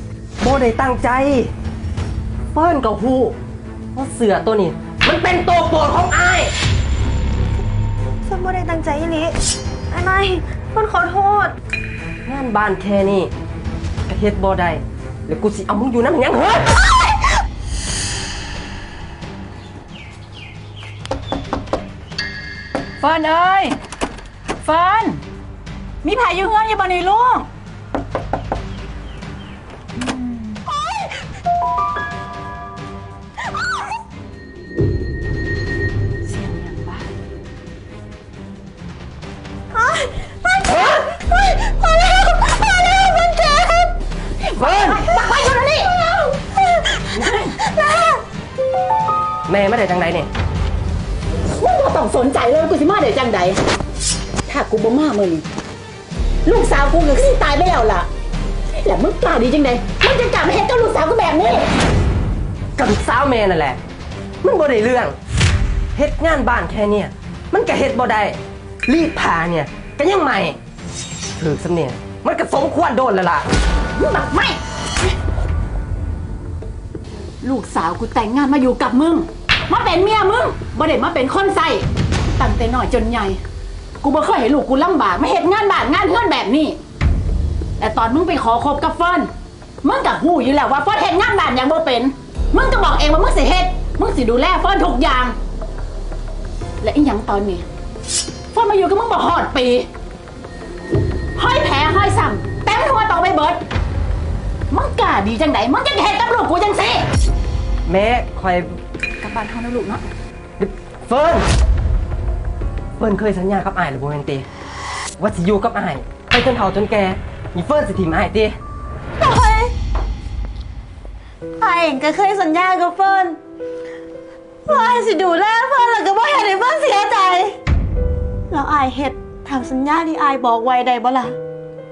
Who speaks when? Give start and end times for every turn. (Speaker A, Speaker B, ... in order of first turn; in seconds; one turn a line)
Speaker A: 0.4-1.5
Speaker A: 2.5-3.4
Speaker A: 3.9-6.5
Speaker B: 8.2-9.4
Speaker B: 9.9-11.6
Speaker A: 12.2-13.3
Speaker A: 14.1-17.0
Speaker C: 23.0-23.8
Speaker C: 24.6-25.2
Speaker C: 26.0-27.5
Speaker C: 29.9-30.6
Speaker C: 36.2-37.1
Speaker B: 39.7-44.0
Speaker C: 44.4-46.1
Speaker A: 44.6-45.1
Speaker B: 46.1-46.3
Speaker C: 47.0-47.6
Speaker B: 47.6-48.2
Speaker A: 49.5-50.3
Speaker C: 51.5-53.6
Speaker C: 54.4-55.5
Speaker C: 56.4-58.1
Speaker C: 58.7-61.7
Speaker A: 62.8-63.8
Speaker A: 64.4-65.1
Speaker A: 65.9-70.6
Speaker A: 71.3-73.5
Speaker C: 74.0-74.6
Speaker C: 77.4-83.4
Speaker C: 84.0-86.8
Speaker C: 87.8-89.3
Speaker C: 89.8-95.4
Speaker C: 96.8-97.6
Speaker C: 98.5-99.9
Speaker C: 101.3-103.6
Speaker C: 104.7-107.1
Speaker A: 107.8-108.7
Speaker C: 109.2-110.1
Speaker A: 110.6-111.5
Speaker A: 113.0-114.5
Speaker A: 115.2-118.6
Speaker B: 119.2-119.7
Speaker B: 121.6-123.4
Speaker B: 124.7-127.6
Speaker B: 128.5-131.4